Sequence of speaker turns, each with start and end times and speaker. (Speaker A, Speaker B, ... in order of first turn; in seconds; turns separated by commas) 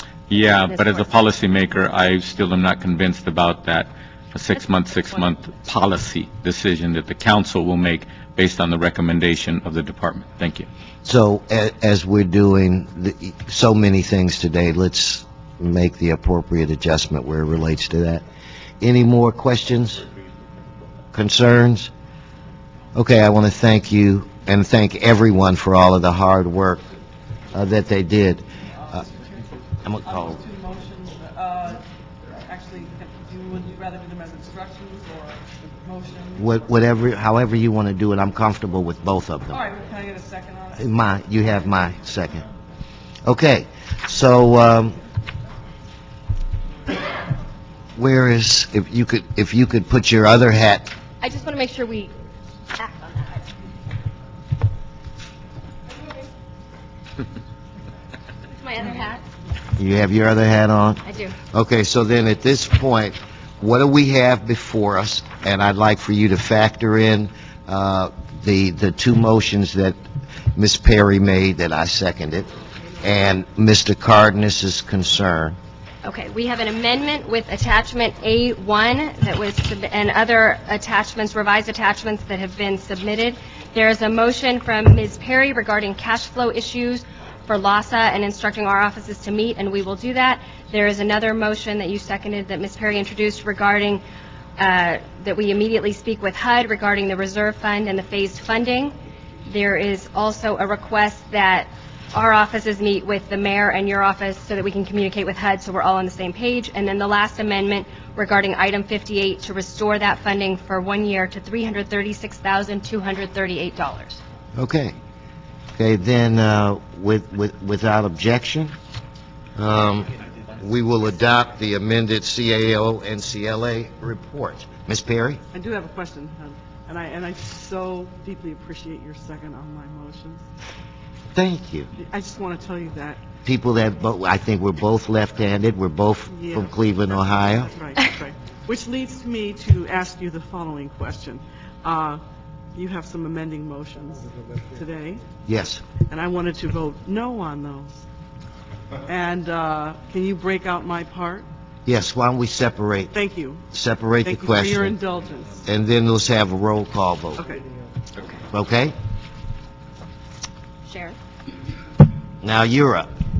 Speaker A: 0.3-10.7, Speaker B: 0.3-1.1, Speaker C: 11.0-18.2, Speaker C: 18.8-20.0, Speaker C: 21.1-21.9, Speaker C: 22.9-26.8, Speaker C: 27.5-29.0, Speaker D: 28.8-29.5, Speaker C: 29.8-30.4, Speaker D: 30.0-31.8, Speaker D: 32.4-36.8, Speaker C: 36.4-39.6, Speaker D: 39.5-41.0, Speaker C: 40.8-42.4, Speaker C: 43.2-45.0, Speaker C: 48.0-50.9, Speaker B: 51.2-52.1, Speaker B: 52.8-53.4, Speaker B: 58.5-59.2, Speaker C: 59.8-70.0, Speaker B: 61.0-61.3, Speaker C: 70.5-72.5, Speaker C: 73.0-75.6, Speaker B: 76.0-94.0, Speaker B: 94.6-98.9, Speaker B: 99.5-114.2, Speaker C: 114.5-115.0, Speaker C: 115.8-118.7, Speaker C: 119.5-125.4, Speaker D: 125.5-130.4, Speaker C: 131.3-131.9, Speaker D: 131.9-133.2, Speaker C: 133.4-137.7, Speaker D: 136.3-142.2, Speaker D: 142.7-145.2, Speaker C: 145.4-145.9, Speaker D: 146.1-147.9, Speaker D: 149.1-151.5, Speaker C: 151.8-153.2, Speaker D: 153.1-153.6, Speaker C: 153.7-155.0, Speaker D: 154.2-155.6, Speaker C: 155.7-157.4, Speaker C: 158.5-158.9, Speaker B: 160.8-161.2, Speaker C: 162.4-163.1